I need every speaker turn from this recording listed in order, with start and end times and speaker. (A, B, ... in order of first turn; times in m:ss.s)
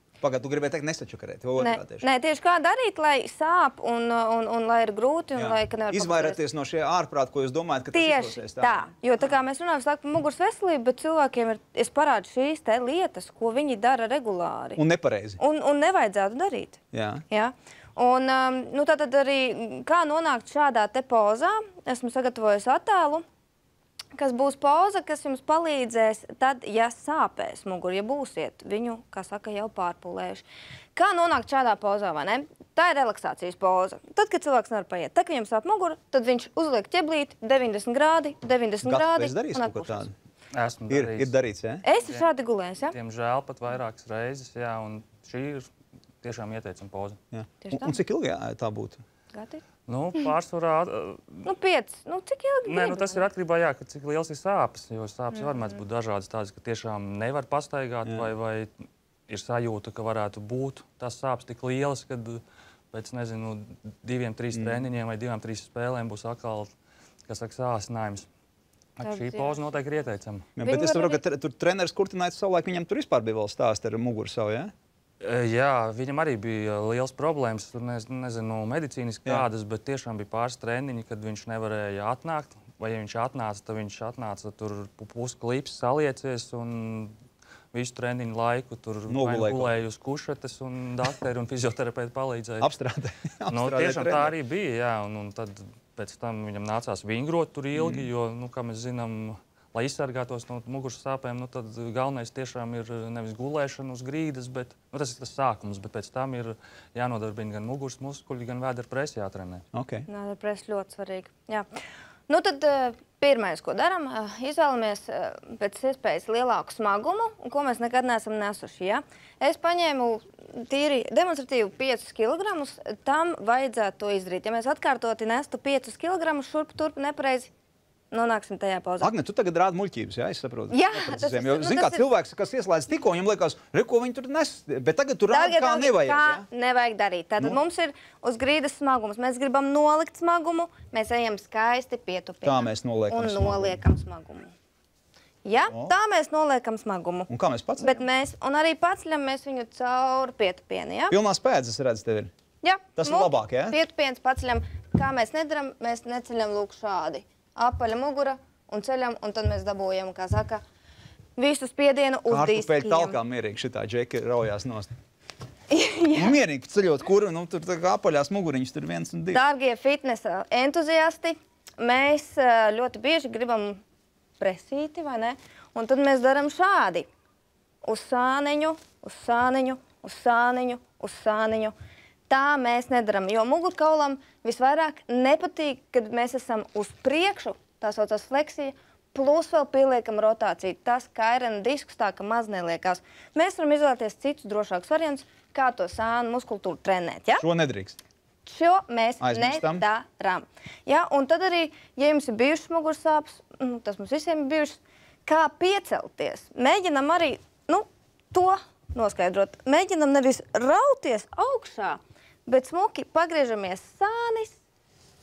0:00.2-0:02.0 A
0:01.6-0:06.4 B
0:05.3-0:08.9 A
0:07.9-0:14.8 B
0:14.8-0:15.4 A
0:15.4-0:23.2 B
0:16.9-0:17.2 A
0:24.1-0:40.1 B
0:38.8-0:40.1 A
0:40.5-0:41.3 C
0:40.9-0:41.8 A
0:41.8-0:43.0 B
0:41.9-0:42.2 C
0:42.9-0:45.7 C
0:46.2-0:47.2 C
0:47.3-0:49.0 A
0:47.6-0:48.0 B
0:49.3-0:49.6 B
0:49.9-0:51.5 C
0:51.4-0:53.3 B
0:52.7-0:58.7 C
0:55.3-0:55.6 B
0:58.0-0:58.3 A
0:59.3-1:06.7 C
1:04.5-1:04.8 A
1:07.3-1:08.3 C
1:09.0-1:10.5 C
1:09.0-1:09.6 B
1:10.6-1:14.7 A
1:10.6-1:11.2 B
1:15.2-1:27.1 C
1:27.7-1:32.7 C
1:29.1-1:29.7 A
1:32.6-1:34.3 A
1:33.5-1:49.6 C
1:37.8-1:38.1 A
1:49.7-1:50.1 A
1:50.1-1:51.7 B
1:52.3-2:07.5 B
2:08.1-2:09.1 B
2:09.0-2:16.5 A
2:10.7-2:12.1 B
2:15.3-2:24.5 B
2:22.4-2:23.8 A
2:25.4-2:31.2 B
2:25.7-2:25.9 A
2:27.3-2:28.0 A
2:31.1-2:32.3 A
2:32.6-2:40.6 B
2:33.0-2:33.8 A
2:41.4-2:43.2 B
2:42.3-2:44.9 A
2:45.7-2:46.4 B
2:46.1-2:49.4 A
2:49.3-2:53.8 B
2:54.4-2:57.1 B
2:57.8-3:01.7 B
3:02.3-3:17.4 B
3:17.4-3:18.0 A
3:18.4-3:34.6 B
3:19.2-3:19.8 A